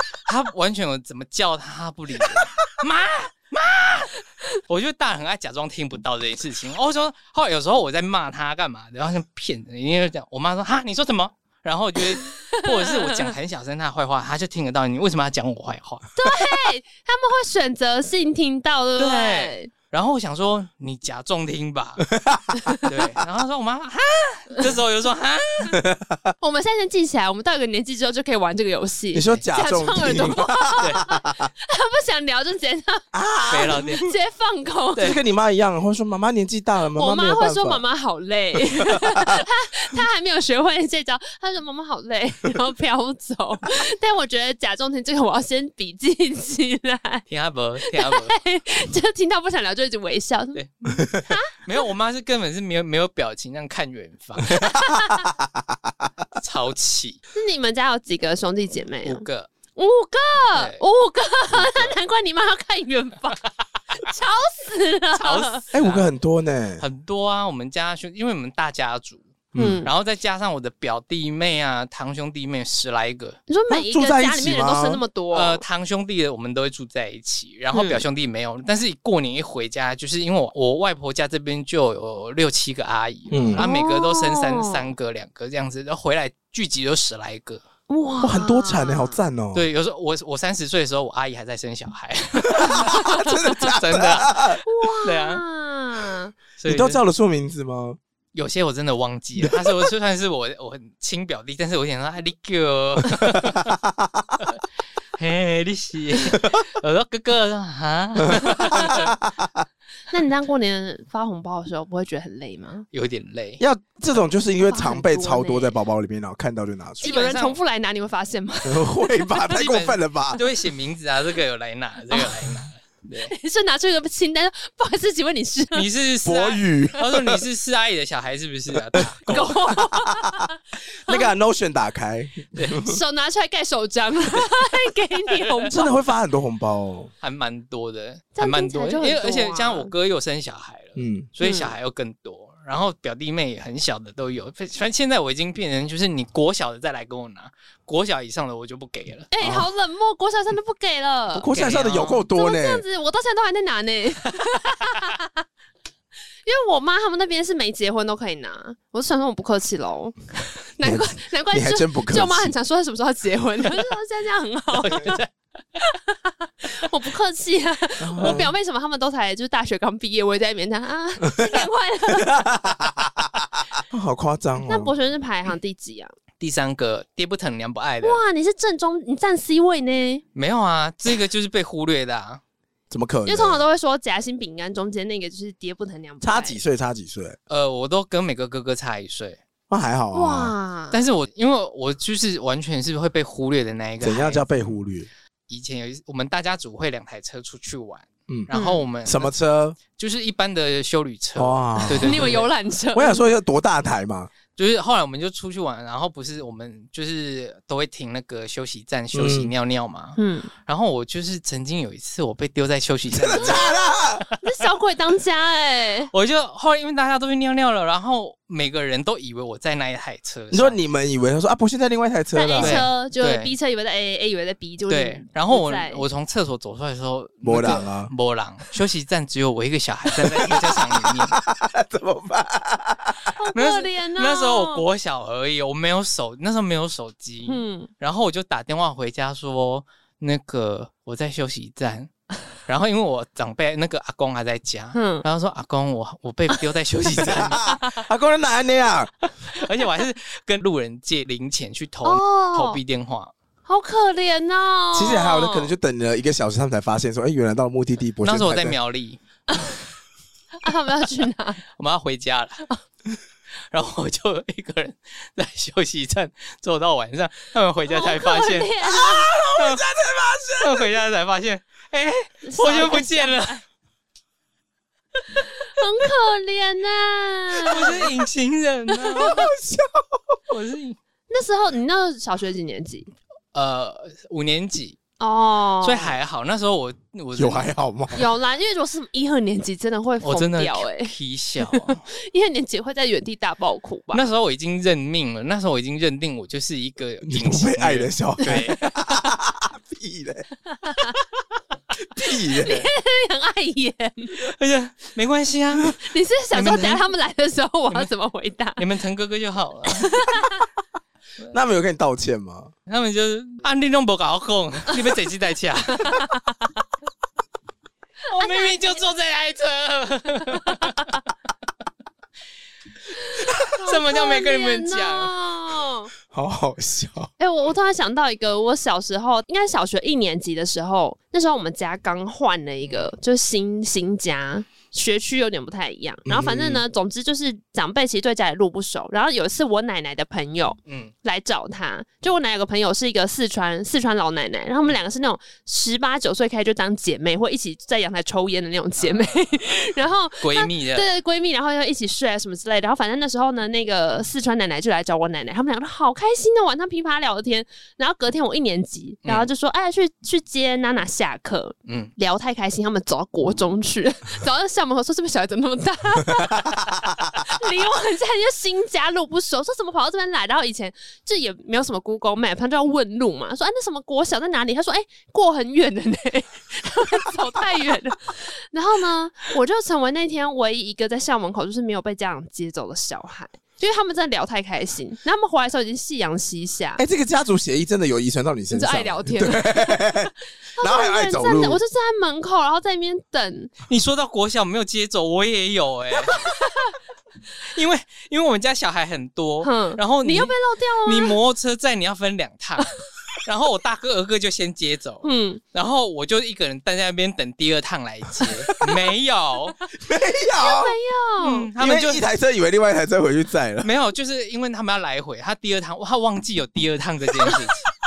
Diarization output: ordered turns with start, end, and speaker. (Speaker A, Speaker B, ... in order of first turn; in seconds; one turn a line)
Speaker A: 0.2-16.1
Speaker B: 12.2-13.2
Speaker B: 16.2-19.7
Speaker A: 19.0-22.1
Speaker C: 22.1-22.8
Speaker A: 22.8-25.8
Speaker C: 25.7-26.3
Speaker B: 26.4-33.1
Speaker C: 29.1-31.5
Speaker C: 33.1-34.0
Speaker A: 33.5-34.1
Speaker B: 34.0-35.2
Speaker C: 35.0-37.8
Speaker B: 37.0-47.3
Speaker C: 38.9-39.4
Speaker A: 47.3-48.3
Speaker B: 47.8-50.6
Speaker A: 50.5-54.8
Speaker C: 51.0-51.2
Speaker B: 51.3-51.6
Speaker C: 54.5-55.9
Speaker B: 54.6-55.3
Speaker A: 56.4-57.2
Speaker B: 57.3-63.4
Speaker A: 59.0-59.5
Speaker A: 60.5-60.8
Speaker A: 61.5-61.9
Speaker B: 64.0-65.6
Speaker A: 65.2-66.1
Speaker C: 65.7-66.8
Speaker A: 66.8-69.3
Speaker C: 69.5-69.8
Speaker B: 69.6-69.9
Speaker A: 69.8-73.4
Speaker B: 73.5-75.6
Speaker C: 73.7-75.0
Speaker A: 75.3-87.6
Speaker B: 77.7-78.0
Speaker C: 83.3-83.7
Speaker B: 83.6-84.8
Speaker B: 87.9-89.2
Speaker C: 88.2-89.7
Speaker A: 89.5-95.4
Speaker C: 92.5-94.6
Speaker B: 92.6-93.3
Speaker B: 94.6-96.3
Speaker A: 96.6-97.0
Speaker C: 96.7-98.0
Speaker A: 98.3-103.8
Speaker C: 99.4-99.7
Speaker C: 103.3-104.2
Speaker A: 105.2-109.1
Speaker C: 108.3-109.7
Speaker B: 108.6-109.0
Speaker B: 110.1-112.9
Speaker A: 112.9-113.6
Speaker C: 113.6-117.2
Speaker B: 114.7-115.8
Speaker A: 117.0-117.6
Speaker B: 117.0-119.3
Speaker C: 118.7-120.4
Speaker A: 119.4-123.3
Speaker B: 123.3-125.9
Speaker A: 125.7-129.7
Speaker C: 126.2-127.5
Speaker C: 128.7-133.0
Speaker B: 129.3-130.6
Speaker A: 132.6-132.8
Speaker B: 132.8-135.9
Speaker A: 135.3-135.7
Speaker C: 135.7-137.1
Speaker A: 137.2-149.3
Speaker B: 138.4-139.9
Speaker C: 141.0-141.3
Speaker B: 141.4-141.7
Speaker B: 149.3-151.7
Speaker C: 149.4-149.7
Speaker C: 151.3-152.8
Speaker A: 151.5-152.3
Speaker B: 152.3-155.3
Speaker B: 156.4-165.2
Speaker C: 160.8-162.5
Speaker A: 164.7-165.3
Speaker B: 165.8-172.8
Speaker C: 168.0-168.5
Speaker A: 168.2-168.4
Speaker C: 171.3-171.6
Speaker C: 172.2-174.9
Speaker B: 174.7-176.2
Speaker A: 176.4-178.2
Speaker B: 178.0-180.2
Speaker A: 180.3-182.4
Speaker C: 182.9-183.6
Speaker B: 183.3-186.6
Speaker C: 186.2-187.4
Speaker A: 187.5-189.4
Speaker C: 189.7-190.5
Speaker B: 190.1-191.0
Speaker A: 190.9-194.7
Speaker C: 194.0-195.1
Speaker A: 195.5-199.3
Speaker B: 198.5-198.8
Speaker C: 199.1-199.8
Speaker A: 199.9-202.5
Speaker C: 201.4-204.3
Speaker B: 201.8-203.2
Speaker A: 204.6-213.7
Speaker C: 209.1-209.5
Speaker B: 210.2-210.5
Speaker C: 213.1-214.3
Speaker B: 213.3-216.1
Speaker A: 216.1-220.8
Speaker C: 220.5-222.9
Speaker B: 222.3-226.1
Speaker A: 222.6-223.5
Speaker A: 224.9-231.4
Speaker C: 227.4-228.1
Speaker C: 230.1-233.3
Speaker B: 233.3-234.8
Speaker A: 233.6-242.1
Speaker B: 237.5-237.9
Speaker A: 242.7-247.7
Speaker B: 244.9-245.2
Speaker C: 247.2-249.1
Speaker B: 247.4-248.0
Speaker A: 249.5-253.3
Speaker B: 252.0-252.8
Speaker B: 253.7-255.7
Speaker C: 254.9-258.8
Speaker A: 258.2-259.2
Speaker B: 259.5-259.8
Speaker B: 260.6-261.6
Speaker A: 261.8-262.7
Speaker A: 263.7-268.7
Speaker B: 267.9-269.4
Speaker C: 268.9-270.9
Speaker A: 269.6-269.9
Speaker A: 270.6-273.6
Speaker B: 272.5-273.6
Speaker B: 275.3-278.1
Speaker A: 277.7-279.5
Speaker C: 279.1-280.4
Speaker A: 280.5-281.0
Speaker B: 281.3-283.1
Speaker A: 283.5-285.0
Speaker B: 285.2-286.2
Speaker A: 285.8-287.7
Speaker C: 287.4-288.2
Speaker B: 288.1-291.1
Speaker A: 290.2-292.0
Speaker B: 291.7-294.3
Speaker A: 294.1-298.8
Speaker C: 297.2-300.5
Speaker B: 298.4-298.8
Speaker B: 300.7-301.2
Speaker C: 302.1-302.8
Speaker B: 302.2-304.4
Speaker A: 304.4-306.0
Speaker B: 306.0-308.8
Speaker A: 306.5-307.0
Speaker A: 308.8-310.3
Speaker B: 309.9-310.6
Speaker C: 311.5-312.7
Speaker A: 312.9-316.3
Speaker B: 316.0-316.7
Speaker A: 318.3-321.2
Speaker B: 318.4-318.8
Speaker B: 320.6-321.2
Speaker B: 323.2-326.1
Speaker A: 323.9-325.4
Speaker C: 326.3-327.3
Speaker B: 327.4-387.0
Speaker C: 336.3-336.8
Speaker A: 340.9-341.1
Speaker A: 349.0-349.5
Speaker A: 350.4-351.1
Speaker A: 361.9-362.1
Speaker C: 387.0-391.8
Speaker B: 388.7-393.8
Speaker A: 393.9-396.5
Speaker B: 396.3-397.0
Speaker A: 397.6-409.8
Speaker B: 399.6-401.4
Speaker B: 405.2-405.6
Speaker C: 409.9-410.9
Speaker B: 410.6-411.7
Speaker A: 411.4-412.2
Speaker C: 411.8-413.9
Speaker A: 413.8-417.8